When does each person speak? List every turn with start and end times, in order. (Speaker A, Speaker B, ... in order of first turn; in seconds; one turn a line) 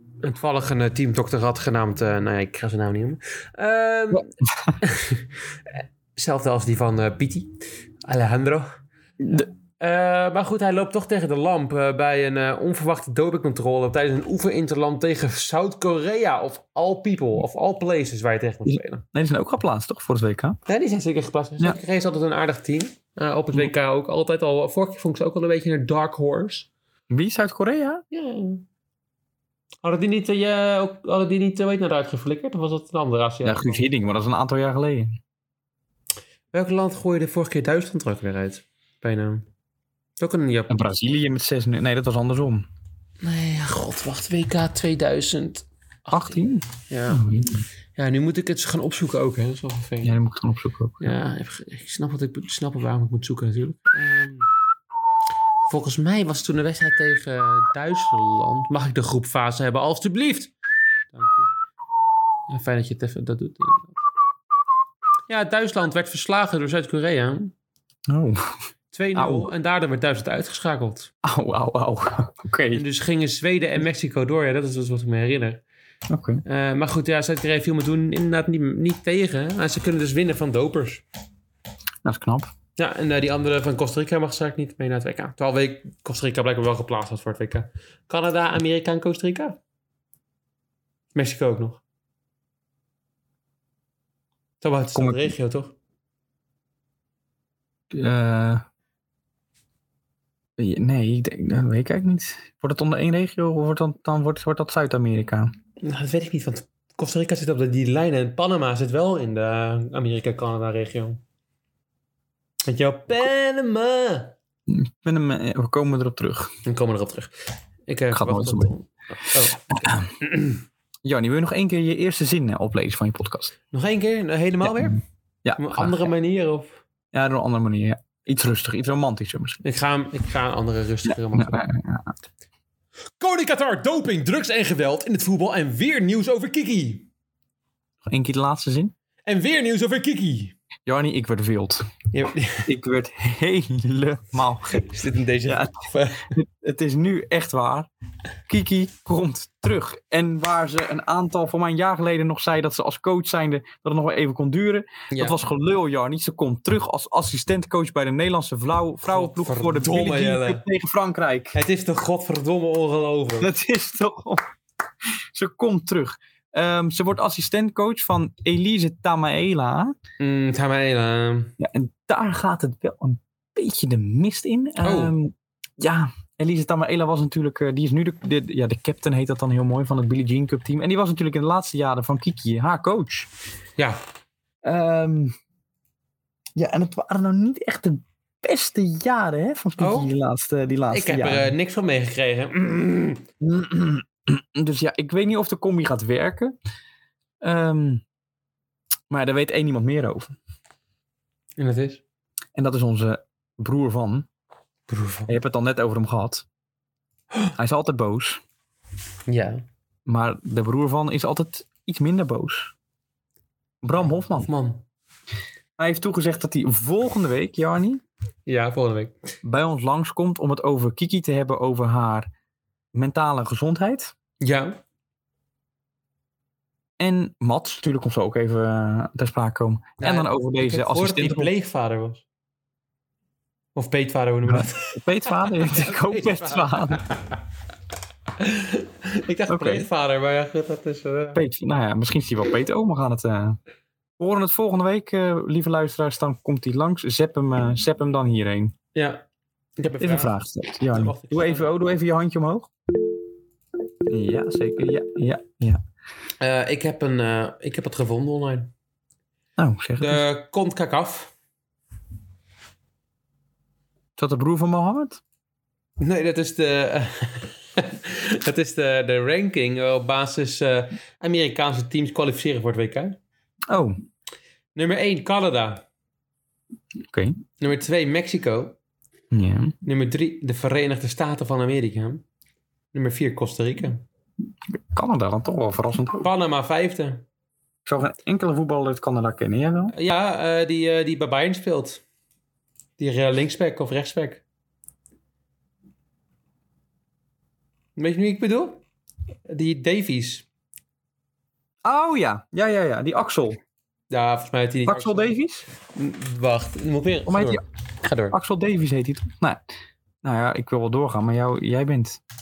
Speaker A: 0.2-5.2
Speaker B: 4.1-4.8
Speaker A: 6.1-8.7
Speaker B: 9.2-9.5
Speaker A: 9.8-19.0
Speaker B: 18.6-20.6
Speaker A: 20.7-26.7
Speaker B: 27.1-28.0
Speaker A: 28.1-28.6
Speaker A: 29.8-33.9
Speaker B: 33.4-35.2
Speaker A: 36.5-39.5
Speaker A: 40.2-40.8
Speaker B: 40.7-42.7
Speaker A: 43.2-47.3
Speaker B: 46.1-47.6
Speaker A: 48.0-50.1
Speaker B: 50.0-51.1
Speaker A: 51.0-54.5
Speaker A: 55.7-60.5
Speaker A: 61.1-61.5
Speaker A: 62.5-63.9
Speaker A: 65.3-67.5
Speaker B: 68.1-68.5
Speaker A: 68.9-71.1
Speaker B: 69.1-69.5
Speaker B: 71.2-72.8
Speaker A: 72.7-75.6
Speaker B: 76.1-76.4
Speaker A: 76.5-81.0
Speaker B: 82.0-82.5
Speaker A: 82.8-89.6
Speaker A: 91.1-91.8
Speaker A: 94.6-95.7
Speaker B: 94.9-95.3
Speaker B: 97.9-98.6
Speaker B: 100.6-105.5
Speaker A: 105.8-111.2
Speaker A: 112.7-114.3
Speaker B: 114.7-116.5
Speaker A: 116.6-117.3
Speaker A: 117.9-120.6
Speaker B: 118.1-118.7
Speaker B: 119.7-120.1
Speaker B: 121.0-123.5
Speaker A: 123.7-125.0
Speaker B: 124.6-126.1
Speaker A: 125.5-126.8
Speaker B: 127.1-129.6
Speaker A: 129.6-131.6
Speaker B: 131.1-132.1
Speaker A: 133.2-137.1
Speaker B: 138.1-138.9
Speaker A: 139.2-140.5
Speaker B: 140.8-141.8
Speaker A: 142.1-142.7
Speaker B: 142.7-144.9
Speaker A: 144.7-146.3
Speaker B: 145.5-145.7
Speaker B: 146.3-147.9
Speaker B: 148.5-161.6
Speaker A: 155.1-155.4
Speaker A: 159.1-160.6
Speaker A: 161.5-163.5
Speaker B: 163.4-164.4
Speaker B: 165.3-169.9
Speaker A: 170.2-171.5
Speaker B: 171.6-183.3
Speaker A: 174.8-175.1
Speaker B: 184.6-185.3
Speaker B: 186.6-191.5
Speaker A: 189.8-190.1
Speaker A: 190.9-193.3
Speaker B: 193.4-196.5
Speaker B: 197.4-198.0
Speaker B: 199.1-200.3
Speaker A: 201.6-202.0
Speaker B: 202.5-204.3
Speaker A: 204.9-205.3
Speaker B: 205.3-206.4
Speaker B: 207.6-208.4
Speaker A: 209.3-209.6
Speaker B: 210.1-212.7
Speaker B: 213.8-214.5
Speaker A: 214.4-214.8
Speaker B: 215.8-218.0
Speaker A: 218.4-219.2
Speaker B: 219.4-222.3
Speaker B: 222.9-224.1
Speaker A: 224.4-224.8
Speaker B: 227.0-231.5
Speaker A: 230.0-232.2
Speaker A: 233.8-237.1
Speaker B: 234.5-237.0
Speaker A: 238.4-241.4
Speaker B: 239.5-239.9
Speaker B: 241.3-243.6
Speaker B: 244.2-248.7
Speaker A: 248.9-249.2
Speaker A: 249.8-250.3
Speaker B: 250.0-252.7
Speaker A: 250.9-251.8
Speaker B: 254.1-255.8
Speaker A: 256.4-258.7
Speaker B: 259.6-260.2
Speaker A: 260.0-261.3
Speaker B: 264.2-265.2
Speaker A: 266.0-273.2
Speaker B: 273.7-273.9
Speaker A: 274.7-275.8
Speaker B: 277.1-277.4
Speaker A: 277.6-278.8
Speaker B: 279.3-279.7
Speaker A: 279.8-282.2
Speaker A: 282.9-284.0
Speaker B: 284.8-286.3
Speaker A: 286.2-287.2
Speaker B: 287.8-289.9
Speaker A: 289.9-292.0
Speaker A: 293.0-294.4
Speaker A: 298.0-298.8
Speaker A: 299.5-300.4
Speaker B: 301.8-303.6
Speaker A: 304.1-305.3
Speaker B: 304.9-305.6
Speaker A: 305.9-308.4
Speaker B: 307.2-307.6
Speaker B: 308.3-309.6
Speaker B: 310.2-312.2